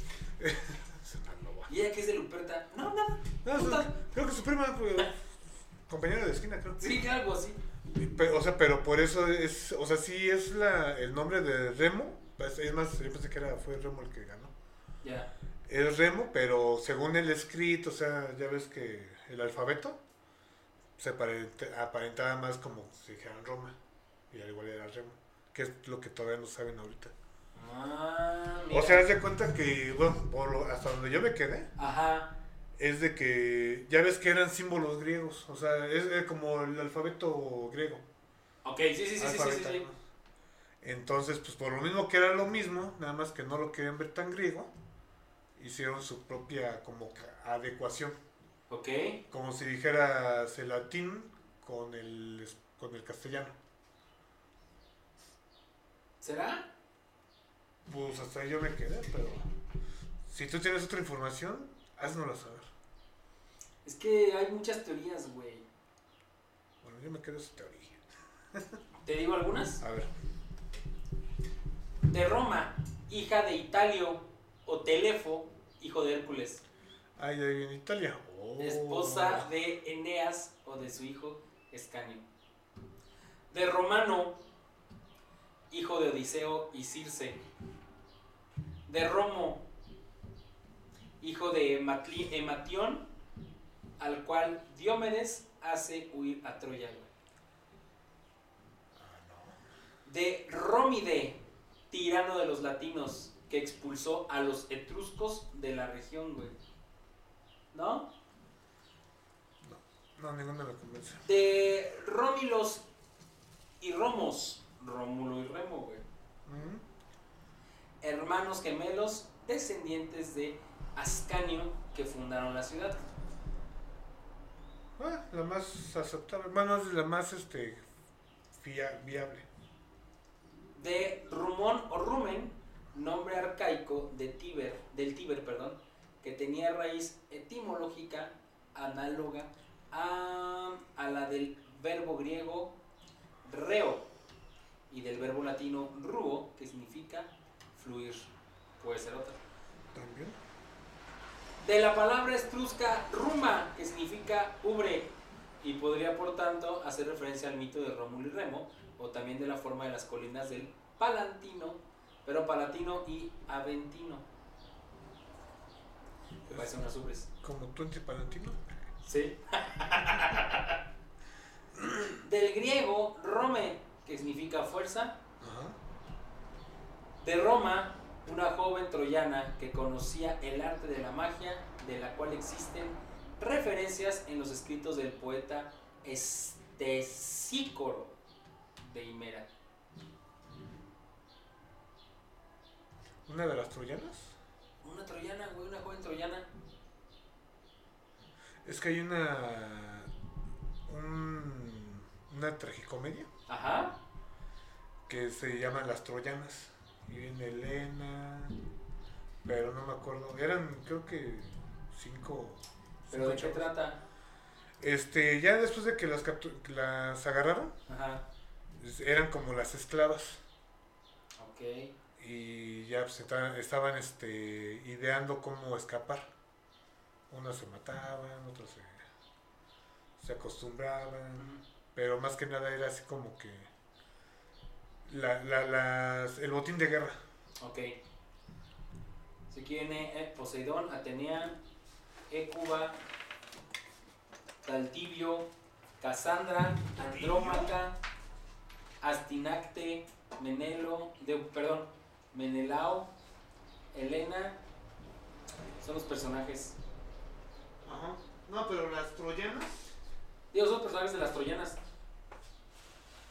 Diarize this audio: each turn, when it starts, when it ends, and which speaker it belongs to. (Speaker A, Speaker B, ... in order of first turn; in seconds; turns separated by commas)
Speaker A: 0.4-1.7, Speaker B: 1.7-3.9, Speaker A: 3.4-5.2, Speaker A: 5.9-7.0, Speaker B: 6.8-7.6, Speaker A: 7.9-14.5, Speaker B: 15.0-15.3, Speaker A: 15.7-20.0, Speaker A: 21.0-23.7, Speaker A: 24.3-27.1, Speaker B: 27.5-29.1, Speaker A: 28.7-31.7, Speaker B: 31.8-32.3, Speaker A: 32.8-38.0, Speaker B: 38.6-39.8, Speaker A: 39.2-39.9, Speaker A: 40.8-44.7, Speaker A: 45.6-48.1, Speaker B: 48.7-49.2, Speaker A: 49.3-53.5, Speaker B: 56.2-56.7, Speaker A: 57.9-59.5, Speaker A: 60.2-62.7, Speaker B: 63.8-65.6, Speaker A: 66.8-68.0, Speaker B: 69.0-69.8, Speaker A: 69.8-70.1, Speaker B: 72.0-76.6, Speaker A: 77.2-79.5, Speaker B: 78.6-82.2, Speaker B: 83.5-84.4, Speaker B: 85.7-87.4, Speaker B: 88.9-89.6, Speaker B: 91.2-93.0, Speaker B: 94.0-97.1, Speaker A: 98.9-99.6, Speaker B: 100.0-101.4, Speaker B: 101.9-106.5, Speaker B: 107.7-108.1, Speaker A: 109.6-111.2, Speaker B: 111.2-112.8, Speaker B: 113.8-116.0, Speaker A: 116.5-116.8, Speaker B: 118.0-123.0, Speaker A: 125.0-127.8, Speaker A: 128.5-129.5, Speaker B: 130.7-142.7, Speaker B: 143.4-144.1, Speaker B: 144.9-149.4, Speaker A: 149.9-150.4, Speaker B: 151.6-155.1, Speaker B: 155.6-164.2, Speaker B: 166.5-167.3, Speaker A: 167.4-168.6, Speaker B: 169.0-170.8, Speaker B: 172.1-175.2, Speaker A: 175.4-175.8, Speaker B: 177.2-188.1, Speaker B: 188.8-189.5, Speaker A: 193.3-194.3, Speaker B: 194.8-196.5, Speaker A: 198.6-200.1, Speaker A: 200.9-203.3, Speaker B: 203.5-204.0, Speaker A: 205.1-208.6, Speaker A: 209.4-213.7, Speaker B: 213.1-214.0, Speaker A: 214.8-217.7, Speaker B: 217.9-218.2, Speaker A: 218.8-220.4, Speaker B: 221.4-221.9, Speaker A: 222.2-226.3, Speaker A: 227.3-229.0, Speaker A: 230.2-233.7, Speaker B: 231.3-231.6, Speaker A: 235.1-237.2, Speaker B: 237.6-237.9, Speaker B: 239.5-241.6, Speaker B: 242.3-242.9, Speaker B: 244.6-245.5, Speaker B: 246.0-247.9, Speaker A: 247.0-247.7, Speaker B: 249.0-253.1, Speaker B: 253.9-254.6, Speaker B: 255.8-256.8, Speaker A: 257.8-259.9, Speaker B: 260.5-261.8